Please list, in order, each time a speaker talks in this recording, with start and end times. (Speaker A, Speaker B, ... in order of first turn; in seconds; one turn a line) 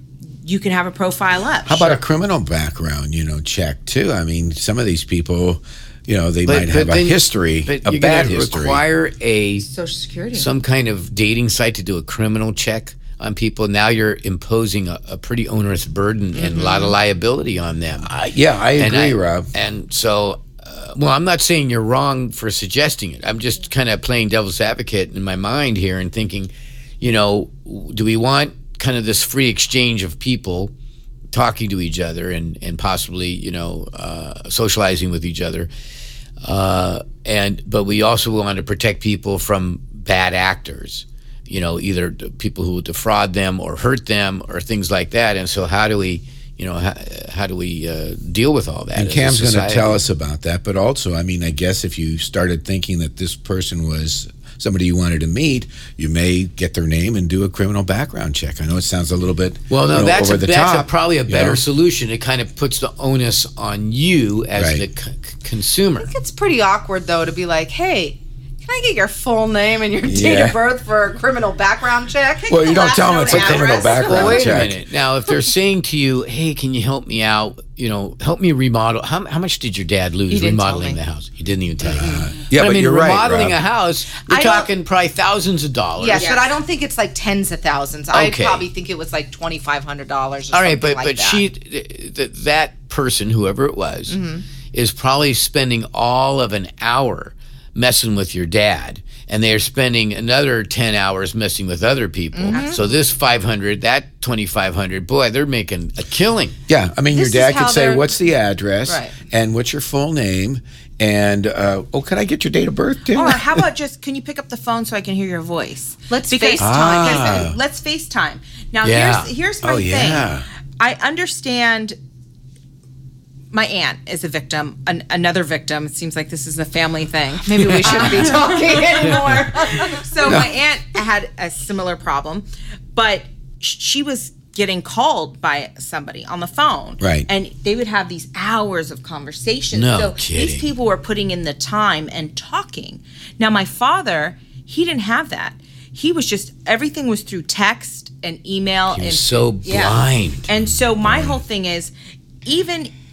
Speaker A: 0.4-2.0
Speaker B: 1.6-8.8
Speaker C: 6.5-9.7
Speaker A: 9.7-10.4
Speaker C: 10.3-18.1
Speaker D: 16.4-16.8
Speaker B: 18.0-19.5
Speaker C: 18.8-30.7
Speaker C: 31.3-35.7
Speaker C: 36.4-50.0
Speaker B: 48.9-61.6
Speaker C: 59.7-66.1
Speaker B: 64.5-64.8
Speaker D: 66.0-74.7
Speaker B: 70.0-70.6
Speaker B: 72.5-74.8
Speaker A: 72.7-74.0
Speaker C: 74.0-86.3
Speaker D: 80.3-81.0
Speaker B: 81.9-83.6
Speaker D: 82.0-82.3
Speaker D: 84.3-84.7
Speaker D: 86.0-91.4
Speaker A: 86.1-86.5
Speaker C: 88.1-88.7
Speaker C: 90.5-94.2
Speaker D: 94.1-94.4
Speaker C: 94.7-106.5
Speaker D: 102.3-102.8
Speaker A: 102.5-102.8
Speaker B: 106.7-113.7
Speaker D: 107.1-108.1
Speaker D: 108.9-109.1
Speaker A: 113.1-121.9
Speaker D: 116.1-117.5
Speaker B: 116.6-117.5
Speaker C: 118.8-119.3
Speaker B: 119.6-120.5
Speaker A: 123.5-150.0
Speaker D: 127.1-130.5
Speaker C: 127.7-128.0
Speaker B: 130.2-130.5
Speaker B: 137.0-137.3
Speaker C: 139.7-140.7
Speaker C: 148.9-150.5
Speaker A: 150.5-151.9
Speaker B: 151.1-151.4
Speaker A: 152.4-152.9